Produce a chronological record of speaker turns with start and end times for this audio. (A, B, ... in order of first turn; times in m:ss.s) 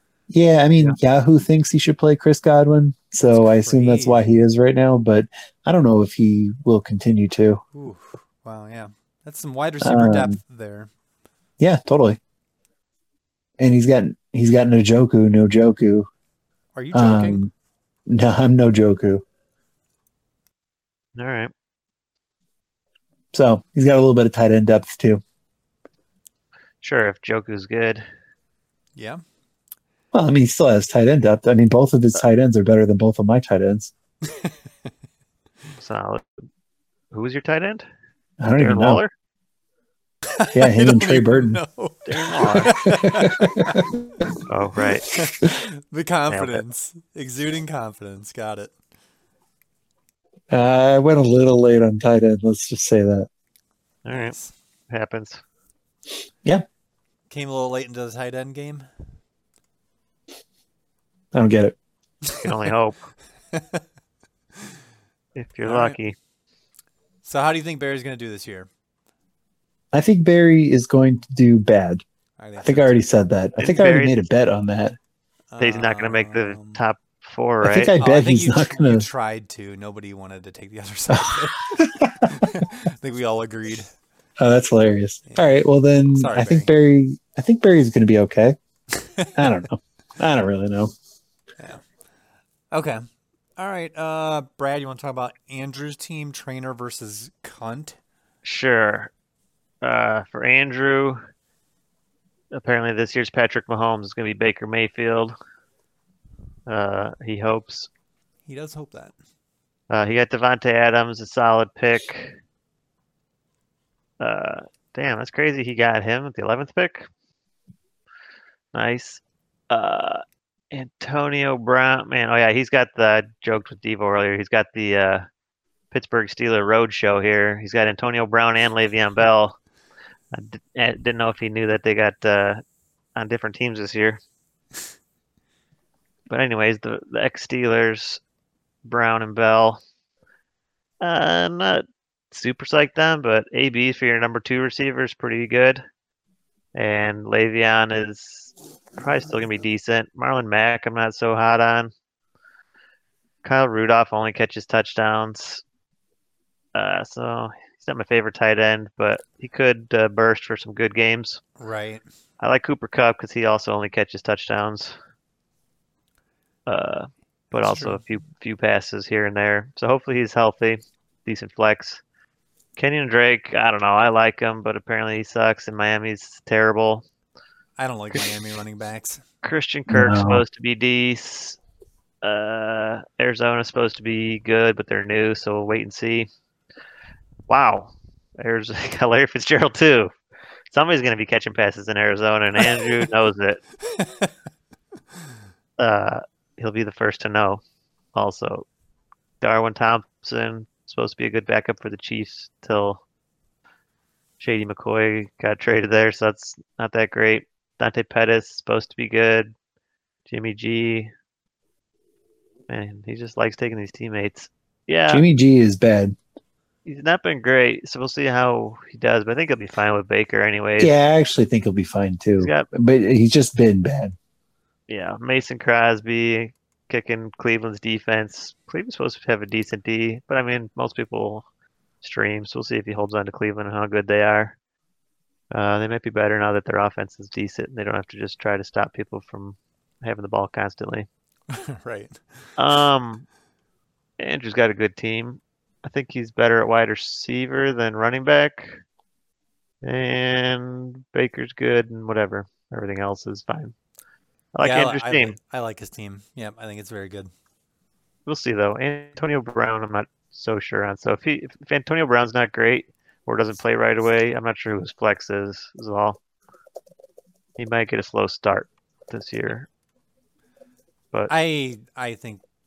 0:00.3-0:07.6 A
0:03.3-0:04.3 B
0:07.7-0:10.9 B
0:09.8-0:10.4 A
0:11.6-0:12.2 A
0:13.6-0:16.1 A
0:16.7-0:17.5 B
0:16.9-0:17.5 A
0:18.1-0:19.2 A
0:21.2-0:21.5 C
0:23.3-0:25.2 A
0:26.8-0:28.0 C
0:29.0-0:29.2 B
0:30.1-0:33.9 A
0:34.2-0:34.6 B
0:35.8-0:36.2 C
0:37.1-0:37.8 C
0:38.4-0:39.0 A
0:38.6-0:39.1 C
0:40.2-0:43.8 B
0:40.5-0:41.6 A
0:42.1-0:42.7 C
0:42.8-0:43.9 A
0:44.5-0:45.1 C
0:45.1-0:48.7 B
0:46.3-0:46.6 C
0:50.5-0:53.3 A
0:54.0-0:54.3 C
0:54.1-0:54.5 B
0:54.9-0:55.4 C
0:57.3-0:58.9 B
1:01.3-1:01.8 A
1:02.2-1:02.6 B
1:02.4-1:03.0 C
1:03.5-1:03.8 B
1:05.3-1:06.1 C
1:05.6-1:06.0 B
1:07.2-1:08.7 B
1:09.9-1:12.0 A
1:12.4-1:13.0 B
1:12.6-1:15.0 A
1:13.6-1:14.2 C
1:15.5-1:16.8 B
1:15.6-1:17.9 C
1:17.6-1:19.1 A
1:18.0-1:23.9 B
1:21.1-1:22.4 A
1:24.4-1:28.6 A
1:25.2-1:25.5 B
1:26.1-1:26.7 B
1:28.9-1:29.4 B
1:29.3-1:30.9 A
1:31.6-1:31.8 B
1:32.7-1:33.0 B
1:33.6-1:38.0 B
1:38.4-1:39.1 C
1:39.8-1:41.2 C
1:42.5-1:45.3 C
1:46.7-1:47.9 C
1:48.4-1:49.1 B
1:49.9-1:52.4 C
1:54.2-1:57.1 C
1:58.7-2:05.2 C
2:05.9-2:09.6 C
2:10.3-2:12.6 C
2:13.2-2:14.2 C
2:16.3-2:18.2 C
2:18.8-2:19.8 C
2:21.0-2:25.8 C
2:26.7-2:31.9 C
2:33.4-2:35.6 C
2:36.7-2:41.4 C
2:41.6-2:42.0 B
2:42.4-2:45.0 C
2:46.7-2:52.0 C
2:47.6-2:48.0 B
2:52.8-2:57.0 C
2:57.8-2:59.2 B
2:59.4-3:01.6 C
2:59.9-3:00.4 A
3:02.2-3:06.3 C
3:07.5-3:10.1 C
3:10.7-3:13.6 C
3:13.9-3:14.3 B
3:15.8-3:17.6 C
3:18.1-3:18.6 C
3:19.4-3:23.0 C
3:24.4-3:29.5 C
3:30.3-3:31.1 C
3:32.7-3:35.2 C
3:35.1-3:36.2 A
3:36.9-3:40.9 C
3:40.8-3:44.1 A
3:42.4-3:42.7 C
3:44.9-3:51.4 C
3:52.0-3:54.6 C
3:55.5-4:01.1 C
4:01.5-4:02.4 B
4:02.6-4:03.2 C
4:04.2-4:08.8 C
4:09.8-4:13.7 C
4:14.6-4:15.4 C
4:14.6-4:17.3 B
4:18.2-4:26.2 C
4:27.6-4:29.7 C
4:31.3-4:32.4 B